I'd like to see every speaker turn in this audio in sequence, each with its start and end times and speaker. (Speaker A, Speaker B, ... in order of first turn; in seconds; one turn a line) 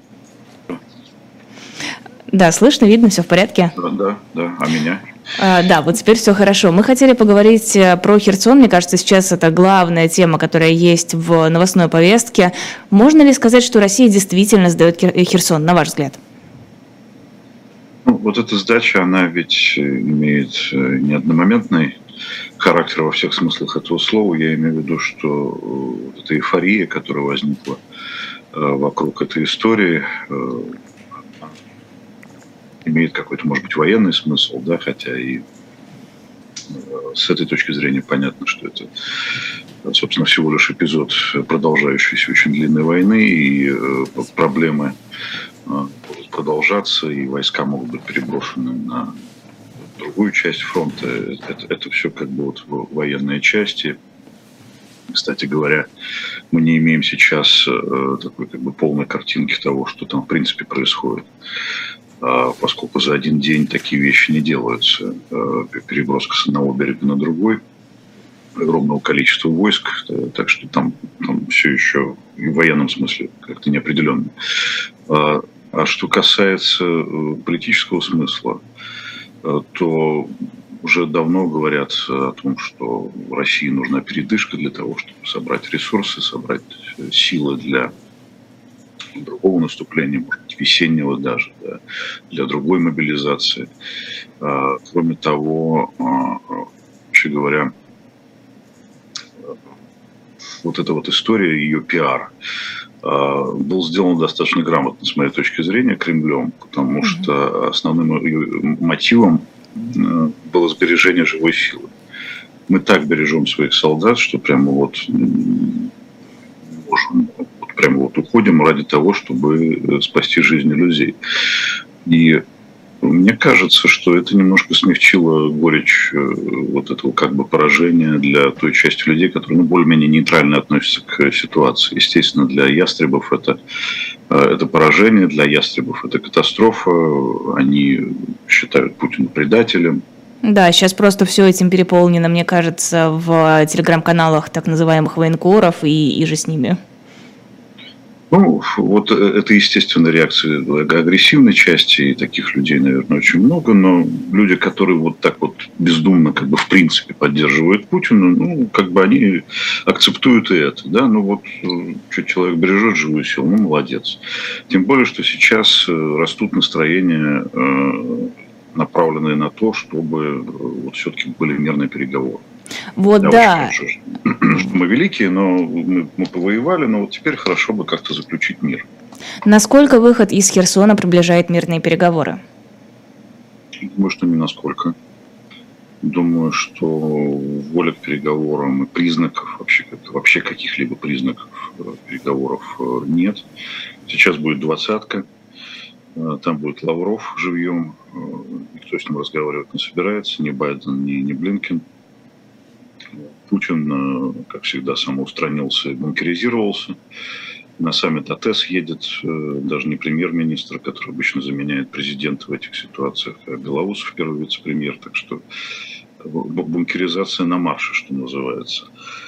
Speaker A: 2.3-3.7
Speaker B: 3.8-5.0
Speaker A: 5.4-16.2
Speaker B: 18.0-22.0
Speaker B: 22.6-27.8
Speaker B: 28.5-30.8
Speaker B: 32.8-35.4
Speaker B: 36.7-45.0
Speaker B: 45.6-49.2
Speaker B: 50.0-54.0
Speaker B: 55.1-55.9
Speaker B: 56.5-61.3
Speaker B: 62.2-67.6
Speaker B: 68.5-74.3
Speaker B: 75.1-78.6
Speaker B: 79.4-87.9
Speaker B: 89.1-93.7
Speaker B: 94.4-97.7
Speaker B: 100.6-102.3
Speaker B: 103.0-111.9
Speaker B: 112.7-115.9
Speaker B: 116.6-122.4
Speaker B: 123.0-133.6
Speaker B: 134.3-140.0
Speaker A: 140.4-146.8
Speaker B: 148.3-172.4
Speaker A: 173.0-173.7
Speaker B: 173.2-178.9
Speaker A: 179.4-182.4
Speaker B: 183.8-184.9
Speaker B: 186.0-193.4
Speaker B: 194.1-195.3
Speaker B: 196.1-201.8
Speaker B: 203.1-207.0
Speaker B: 207.8-215.4
Speaker B: 216.2-218.9